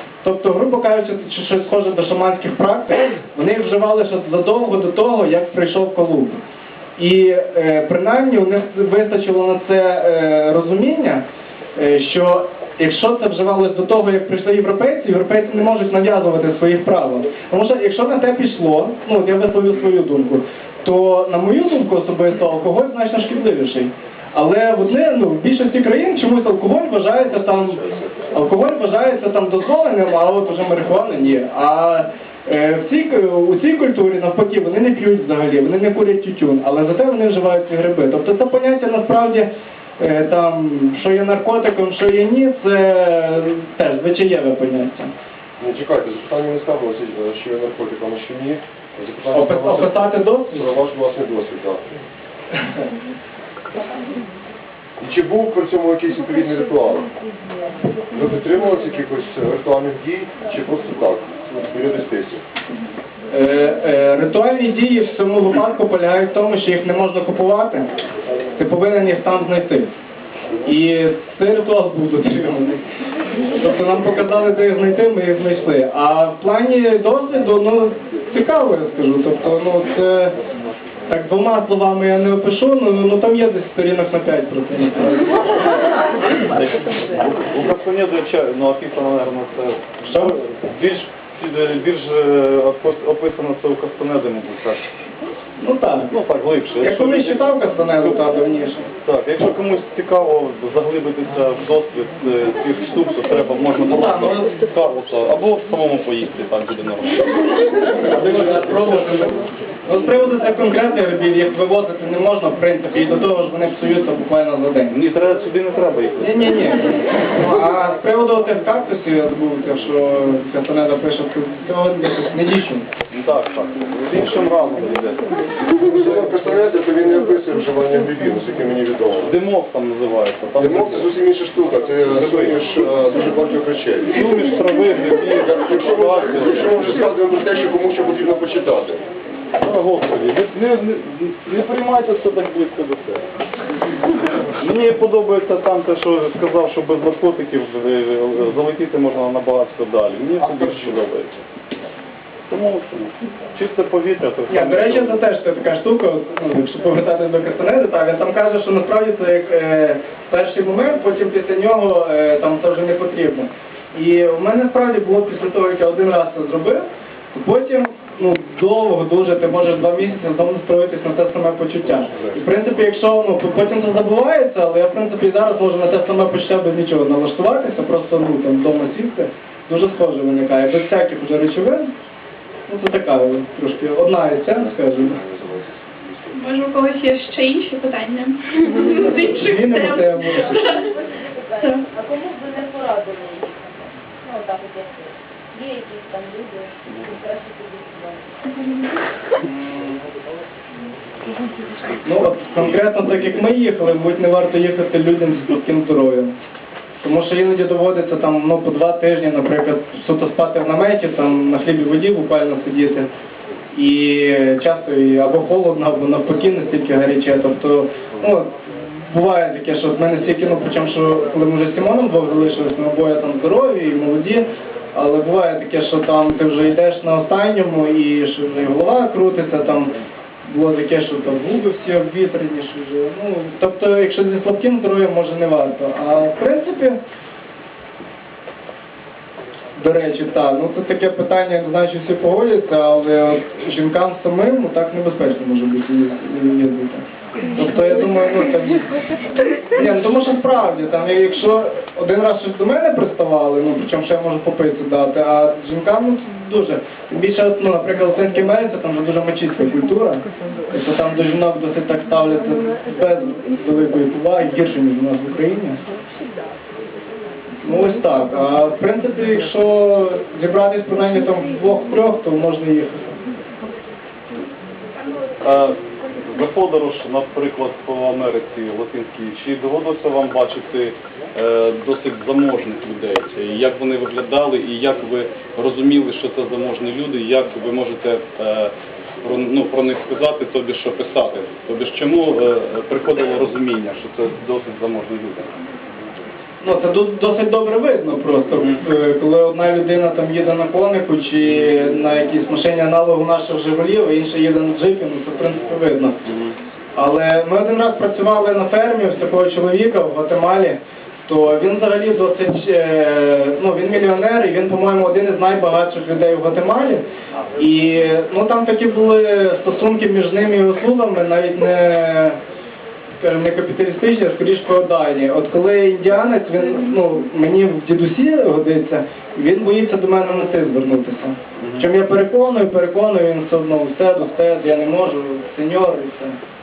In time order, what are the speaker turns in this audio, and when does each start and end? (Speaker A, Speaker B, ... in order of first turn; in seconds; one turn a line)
Speaker A: 0.2-6.4
Speaker A: 7.0-11.2
Speaker A: 11.8-45.1
Speaker B: 45.6-51.8
Speaker A: 49.3-50.6
Speaker B: 55.0-57.1
Speaker B: 58.1-62.4
Speaker A: 63.3-67.9
Speaker A: 68.5-69.9
Speaker A: 70.6-72.8
Speaker A: 73.6-80.3
Speaker A: 81.1-85.4
Speaker C: 86.2-94.8
Speaker A: 90.1-90.4
Speaker A: 95.6-96.1
Speaker C: 96.1-97.4
Speaker A: 96.8-98.9
Speaker C: 99.0-107.5
Speaker A: 103.8-104.5
Speaker A: 108.0-114.9
Speaker C: 114.9-116.4
Speaker A: 116.2-122.9
Speaker C: 123.1-126.2
Speaker B: 125.9-129.3
Speaker C: 129.2-131.1
Speaker B: 130.6-134.2
Speaker C: 132.1-132.6
Speaker C: 134.1-136.9
Speaker B: 135.3-139.0
Speaker C: 139.6-143.2
Speaker C: 144.6-151.3
Speaker B: 150.4-150.9
Speaker C: 152.5-155.2
Speaker A: 154.5-181.9
Speaker B: 172.0-172.4
Speaker A: 182.7-185.2
Speaker B: 185.0-186.4
Speaker D: 186.3-190.9
Speaker A: 188.9-190.7
Speaker E: 190.6-198.3
Speaker D: 191.6-191.8
Speaker D: 198.6-198.8
Speaker A: 199.4-200.0
Speaker A: 202.0-206.3
Speaker A: 207.0-213.1
Speaker A: 213.7-218.5
Speaker A: 219.0-229.9
Speaker A: 230.4-237.0
Speaker A: 239.8-248.8
Speaker A: 249.7-265.8
Speaker A: 267.6-273.2
Speaker C: 275.4-288.7
Speaker C: 289.2-295.5
Speaker A: 296.6-306.2
Speaker A: 306.9-317.0
Speaker A: 317.6-322.4
Speaker A: 323.2-336.4
Speaker C: 331.6-331.9